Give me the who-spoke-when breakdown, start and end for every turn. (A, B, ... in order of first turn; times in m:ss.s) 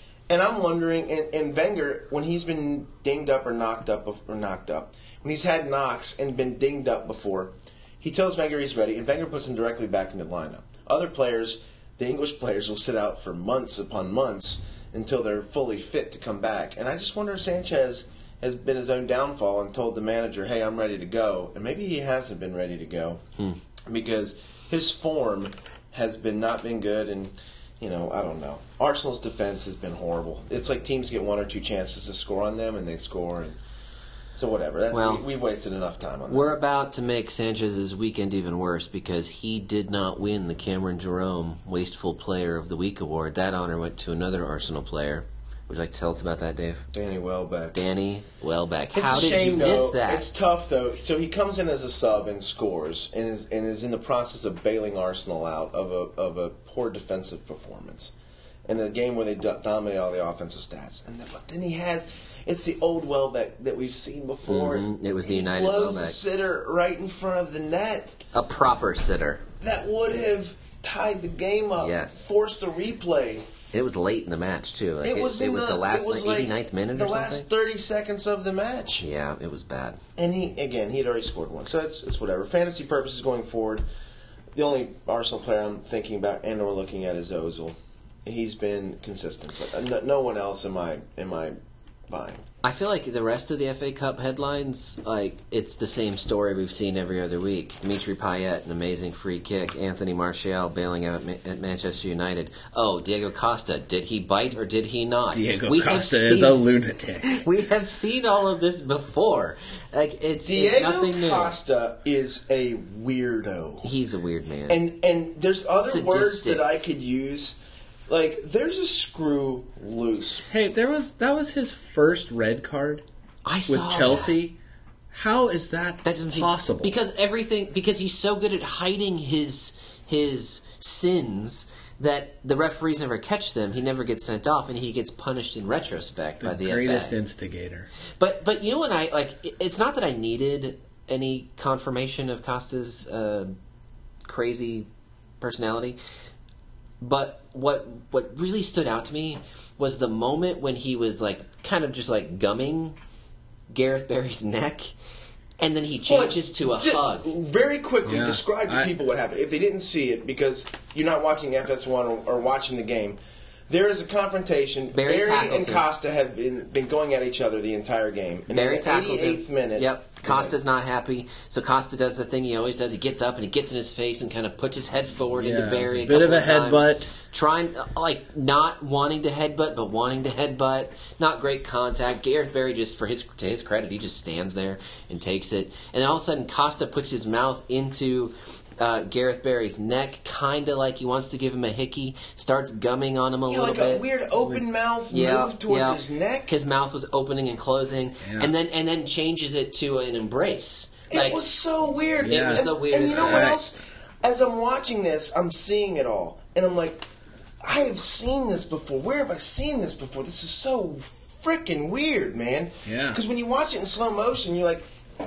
0:00.3-0:23.2 A
0:23.9-0:33.6 A
0:34.3-0:36.6 A
0:34.9-0:35.2 B
0:36.3-0:46.8 B
0:46.9-0:47.8 A
0:47.7-0:50.3 B
0:48.9-0:58.1 A
0:58.6-1:08.2 A
1:04.5-1:06.2 B
1:08.3-1:09.4 B
1:09.6-1:13.5 A
1:11.8-1:12.3 B
1:13.7-1:17.4 B
1:15.0-1:19.0 A
1:19.0-1:20.0 B
1:20.2-1:23.8 A
1:24.5-1:31.6 A
1:32.1-1:32.4 A
1:32.6-1:46.6 B
1:45.3-1:47.4 C
1:47.2-1:51.5 B
1:50.4-1:53.9 A
1:53.8-1:54.8 B
1:54.7-2:00.4 A
1:55.8-1:56.7 B
2:00.5-2:03.0 C
2:03.4-2:04.3 B
2:03.7-2:04.6 C
2:05.1-2:06.9 C
2:06.0-2:17.2 B
2:16.4-2:17.9 C
2:18.2-2:23.6 B
2:24.2-2:24.9 B
2:25.4-2:26.0 B
2:27.0-2:33.0 B
2:33.7-2:34.9 B
2:35.6-2:37.3 B
2:36.1-2:50.6 A
2:38.0-2:38.9 C
2:44.9-2:45.8 B
2:48.5-3:14.0 B
2:55.4-2:57.1 C
3:13.5-3:16.5 A
3:15.1-3:21.4 B
3:18.2-3:18.5 C
3:21.1-3:27.0 A
3:22.2-3:23.6 C
3:22.3-3:23.6 B
3:27.6-3:34.8 A
3:32.8-3:33.2 C